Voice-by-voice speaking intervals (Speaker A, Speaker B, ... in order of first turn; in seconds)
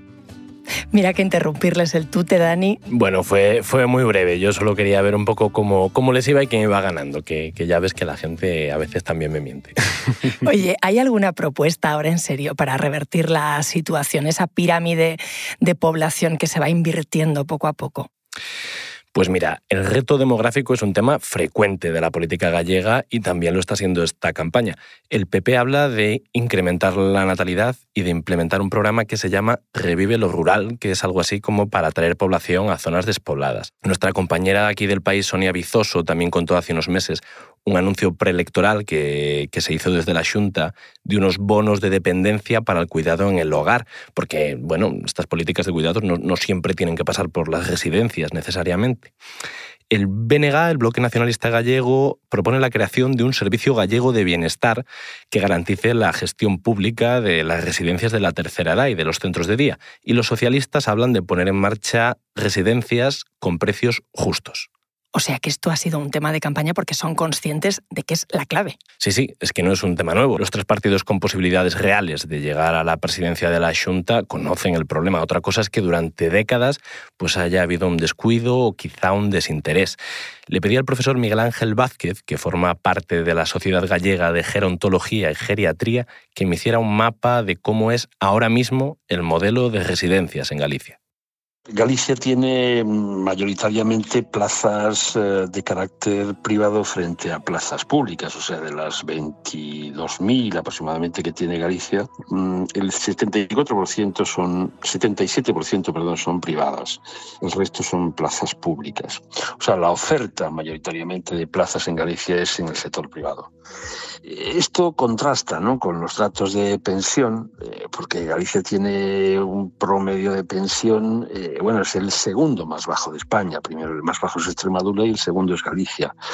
Speaker A: 0.9-2.8, 10.4-18.1, 65.1-68.8
Speaker B: 2.9-9.7, 19.1-49.1, 49.9-64.7, 69.0-91.0
Speaker C: 91.7-113.5, 114.2-126.1